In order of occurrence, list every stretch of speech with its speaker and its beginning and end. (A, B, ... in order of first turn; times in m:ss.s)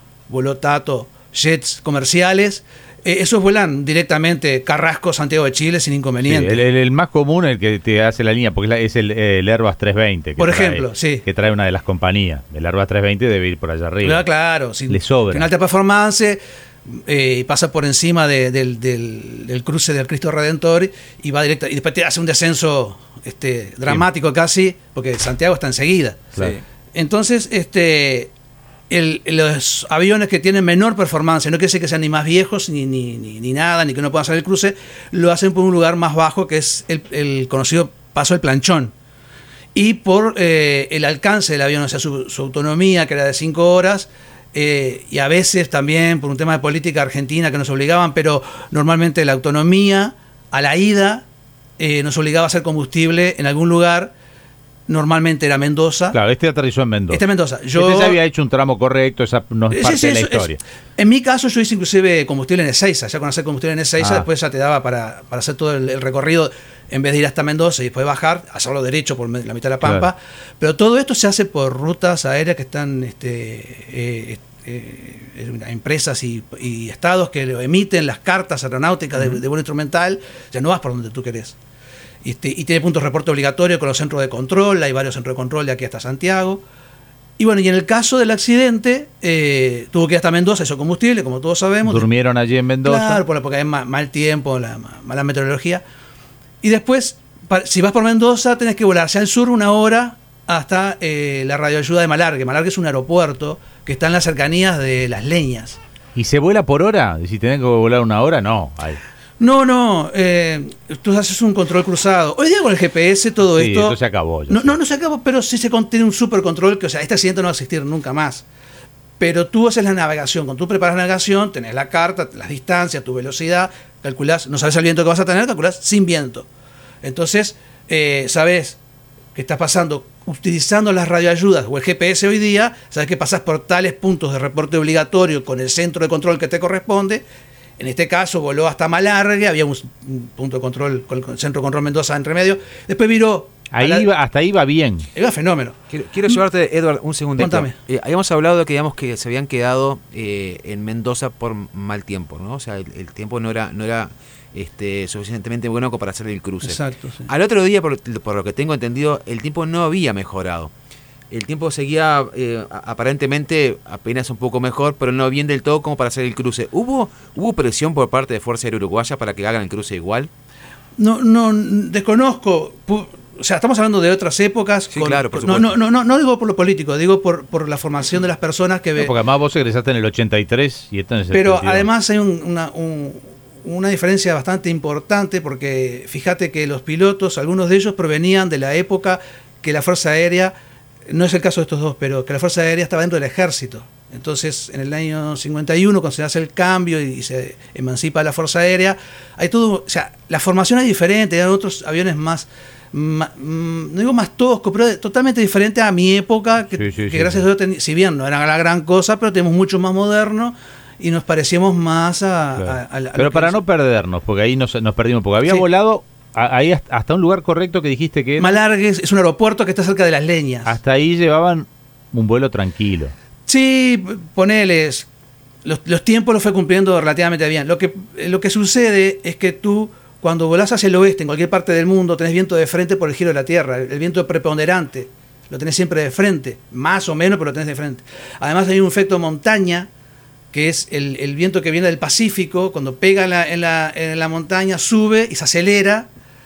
0:00.3-0:06.6 A
0:06.2-0:14.2 B
0:10.4-0:11.2 A
0:14.0-0:26.3 A
0:14.9-0:15.5 B
0:26.9-0:28.3 A
0:28.9-0:38.9 A
0:39.7-0:51.2 A
0:51.8-0:54.1 A
0:54.9-0:56.2 A
0:56.1-1:00.6 B
0:57.1-0:58.2 A
0:59.7-1:21.6 A
1:04.0-1:04.3 B
1:22.2-1:26.6 A
1:27.4-1:32.1 A
1:31.8-1:33.2 B
1:32.8-1:35.8 A
1:36.6-1:45.8 A
1:46.2-1:49.0 B
1:49.4-1:58.4 A
1:53.4-1:54.8 B
1:59.2-2:06.5 A
2:07.0-2:08.8 A
2:09.3-2:17.2 A
2:17.8-2:24.1 A
2:23.7-2:25.1 B
2:25.1-2:25.8 A
2:25.9-2:40.7 C
2:27.4-2:27.7 A
2:36.6-2:37.3 A
2:41.3-2:50.3 C
2:51.0-2:59.1 A
2:54.9-2:55.8 C
2:59.0-3:01.9 B
3:01.3-3:10.5 A
3:11.0-3:33.6 A
3:26.7-3:27.4 B
3:32.6-3:38.6 B
3:38.4-3:40.8 A
3:40.6-3:43.1 B
3:43.4-3:45.1 A
3:45.6-3:59.9 A
4:00.5-4:06.1 A